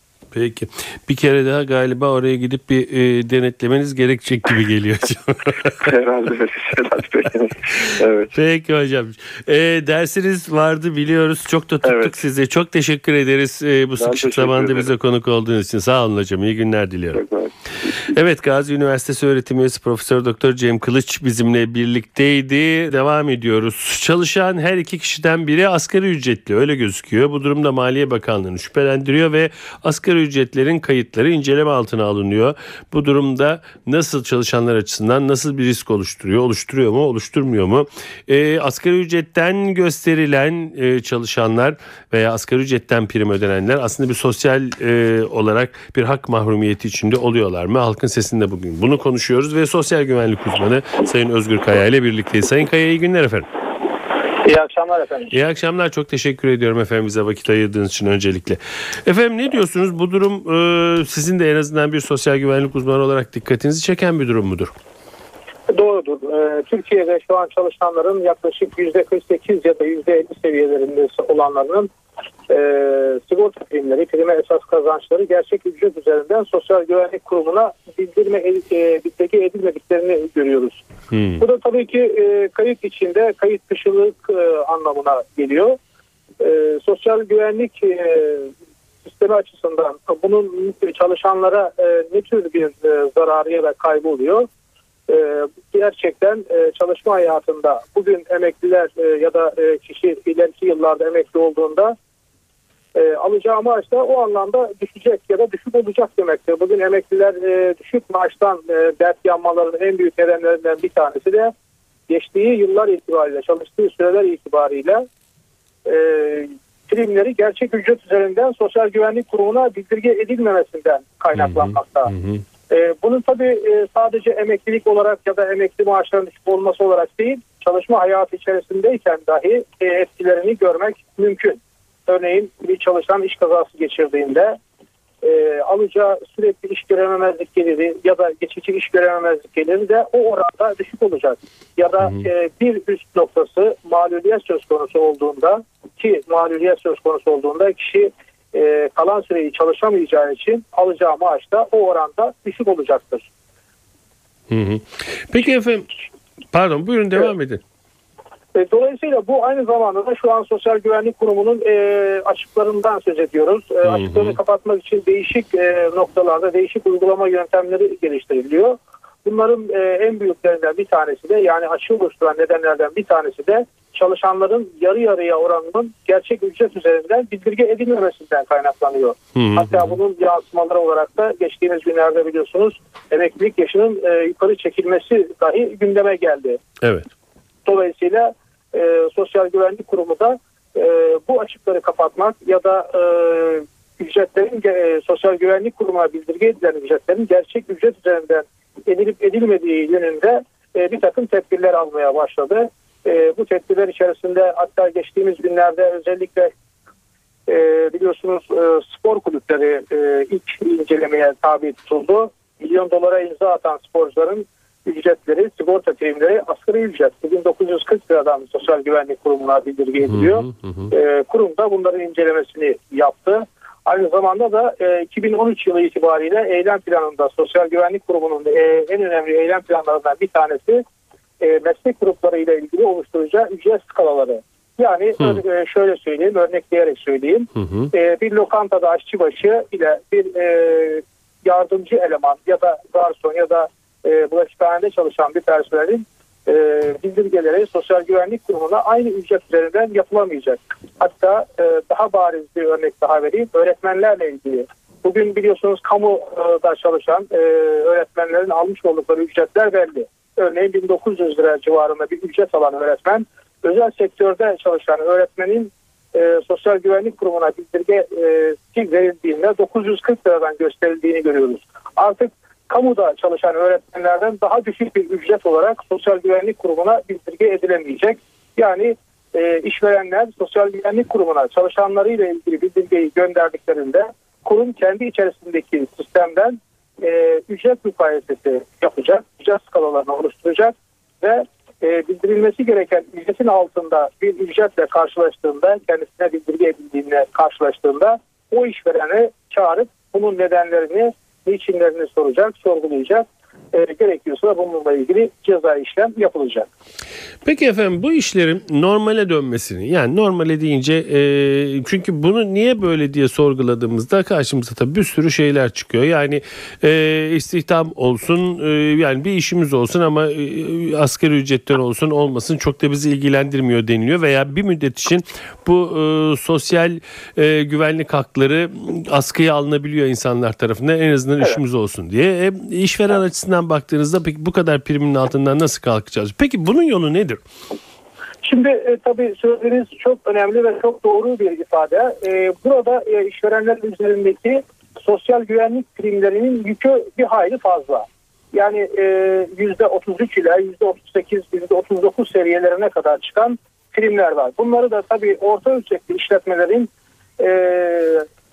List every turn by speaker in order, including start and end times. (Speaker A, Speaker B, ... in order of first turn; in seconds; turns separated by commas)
Speaker A: 0.3-5.9, Speaker B: 5.8-8.3, Speaker A: 8.3-17.2, Speaker B: 11.8-12.2, Speaker B: 14.0-14.9, Speaker B: 17.1-17.9, Speaker A: 18.1-53.5, Speaker C: 54.4-55.3, Speaker A: 55.3-64.7, Speaker C: 65.7-71.9, Speaker C: 72.5-80.8, Speaker A: 81.1-81.4, Speaker C: 81.4-85.8, Speaker C: 86.4-88.5, Speaker C: 89.0-94.5, Speaker C: 95.1-102.0, Speaker C: 102.9-111.5, Speaker C: 112.1-115.0, Speaker C: 115.8-122.1, Speaker A: 121.3-122.4, Speaker C: 122.7-134.6, Speaker C: 135.2-153.3, Speaker A: 154.5-155.8, Speaker A: 156.5-157.6, Speaker C: 158.5-186.6, Speaker A: 163.8-164.3, Speaker A: 179.3-180.0, Speaker A: 186.8-187.1, Speaker C: 187.7-206.5, Speaker C: 207.5-230.8, Speaker A: 220.1-220.9, Speaker C: 231.4-306.7, Speaker A: 237.6-237.9, Speaker A: 307.4-337.4, Speaker C: 338.4-358.3